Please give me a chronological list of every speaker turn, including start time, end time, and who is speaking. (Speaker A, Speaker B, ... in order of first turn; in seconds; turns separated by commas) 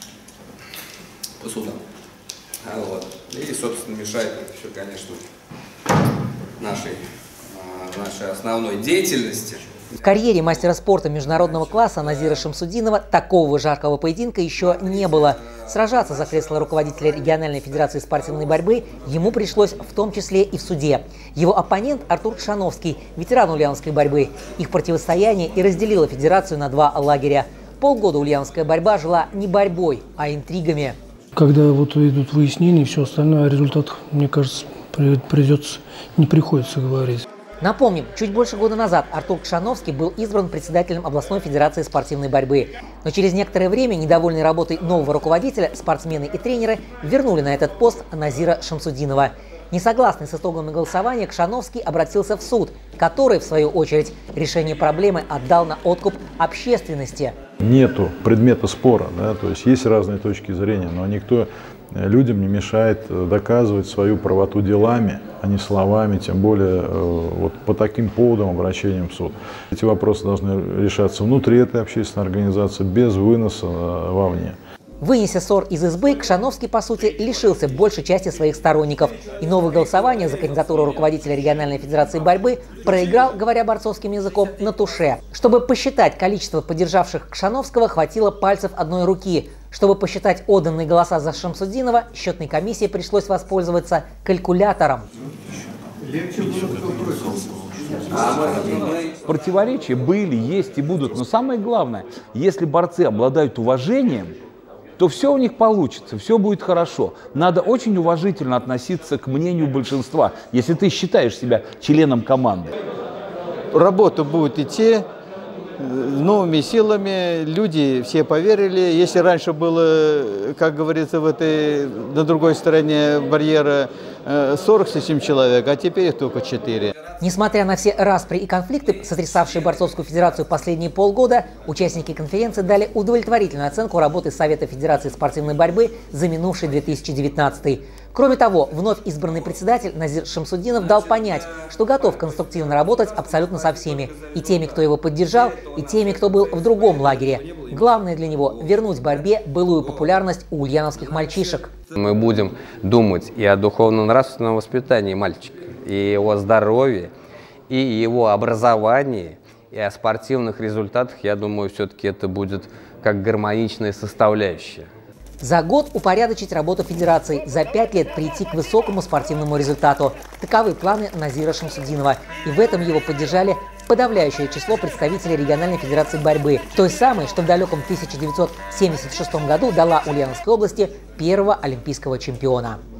Speaker A: 1.4-1.8, Speaker A: 2.6-5.2, Speaker A: 6.6-9.6, Speaker B: 10.0-31.0, Speaker C: 31.4-37.2, Speaker B: 37.6-57.4, Speaker D: 57.6-74.6, Speaker B: 75.0-95.1, Speaker E: 96.0-98.8, Speaker A: 98.1-99.1, Speaker F: 99.2-104.3, Speaker F: 105.0-112.7, Speaker E: 113.7-115.0, Speaker E: 115.8-126.9, Speaker B: 127.2-151.7, Speaker A: 151.9-157.1, Speaker A: 157.7-164.9, Speaker B: 165.4-182.8